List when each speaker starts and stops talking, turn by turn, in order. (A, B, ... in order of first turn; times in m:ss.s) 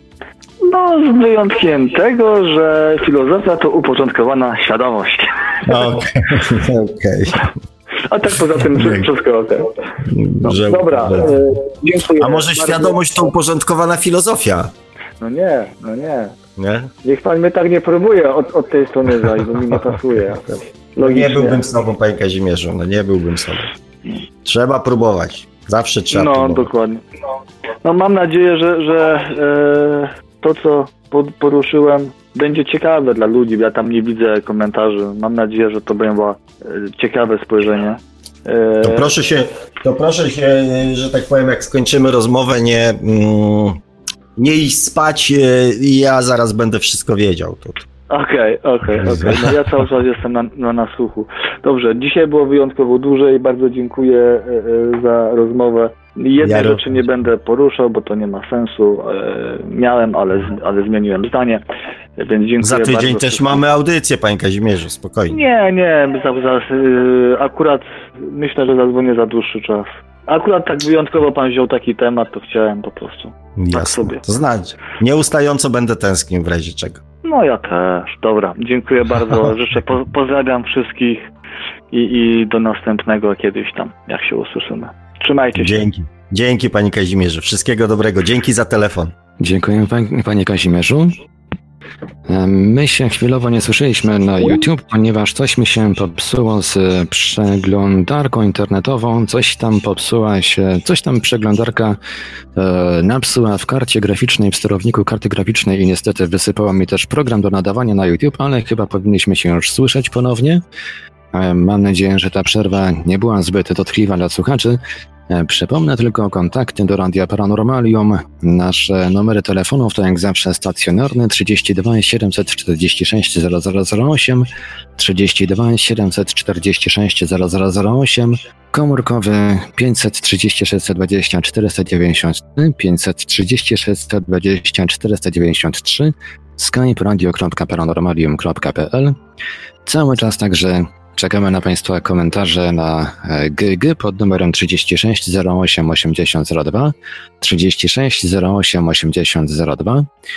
0:00.6-0:05.8 A
0:05.6-0:07.5 B
0:08.1-0:09.7 A
0:08.8-0:09.0 B
0:10.0-0:11.4 B
0:10.4-0:13.0 A
0:12.2-0:14.7 B
0:15.2-0:16.3 A
0:16.6-0:16.9 B
0:17.0-0:21.6 A
0:21.0-0:23.7 B
0:24.4-0:26.7 B
0:26.1-0:27.0 A
0:27.8-0:39.1 A
0:38.8-0:43.8 B
0:44.4-0:47.8 B
0:48.1-1:01.6 A
0:49.0-0:49.6 B
0:56.4-0:57.0 B
1:02.2-1:03.6 A
1:02.6-1:05.4 B
1:05.3-1:14.2 A
1:13.6-1:17.0 B
1:17.2-1:21.2 A
1:21.9-1:25.8 A
1:25.6-1:29.1 B
1:29.4-1:31.2 C
1:32.3-1:42.0 C
1:42.5-1:50.6 C
1:51.3-1:54.8 C
1:55.3-2:04.4 C
2:05.0-2:19.2 C
2:19.8-2:30.1 C